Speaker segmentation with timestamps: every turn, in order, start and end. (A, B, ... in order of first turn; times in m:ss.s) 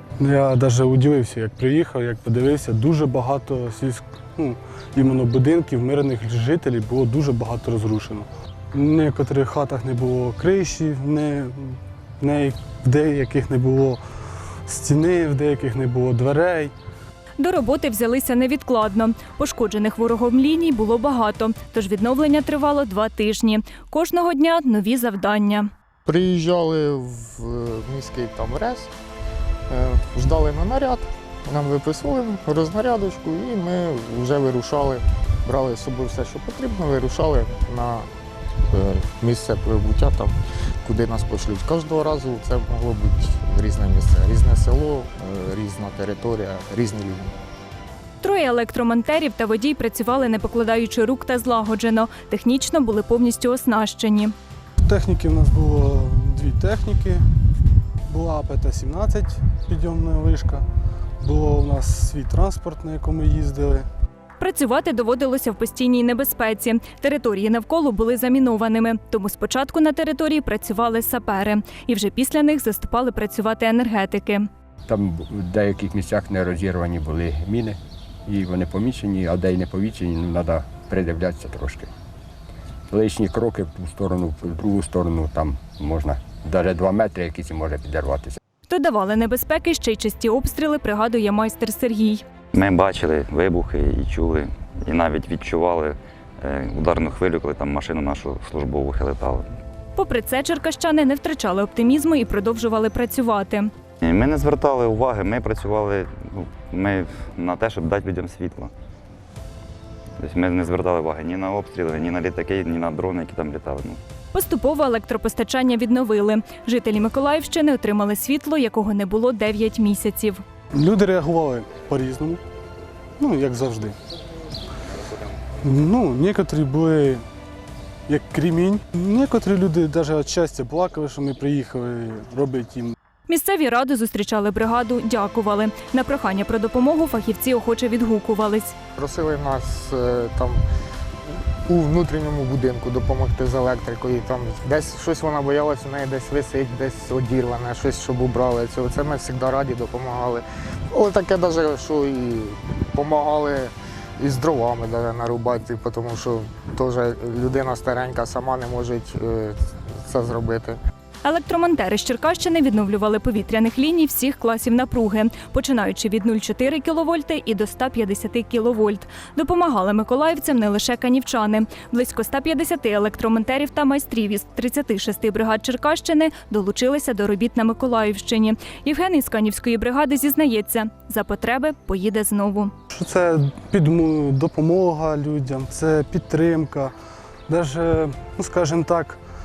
0:00.2-0:14.0 A
0:14.6-0:16.7 A
0:17.4-0:25.7 B
0:26.0-0:28.9 C
0:29.7-0:38.1 C
0:38.7-0:40.3 C
0:40.8-0:47.4 C
0:48.2-0:54.3 B
0:54.8-0:57.2 A
0:58.0-1:00.6 A
1:01.2-1:03.9 A
1:04.4-1:14.5 B
1:14.8-1:21.9 D
1:22.9-1:28.4 D
1:28.7-1:32.2 B
1:32.5-1:39.4 E
1:40.0-1:43.7 B
1:44.0-1:48.7 E
1:50.2-1:54.0 E
1:54.3-2:00.4 B
2:00.7-2:02.4 A
2:03.2-2:04.0 A
2:05.6-2:07.2 A
2:08.1-2:13.0 A
2:13.3-2:18.7 B
2:19.0-2:20.6 C
2:21.7-2:40.8 C
2:41.2-3:02.7 B
3:02.9-3:06.9 A
3:07.5-3:09.2 A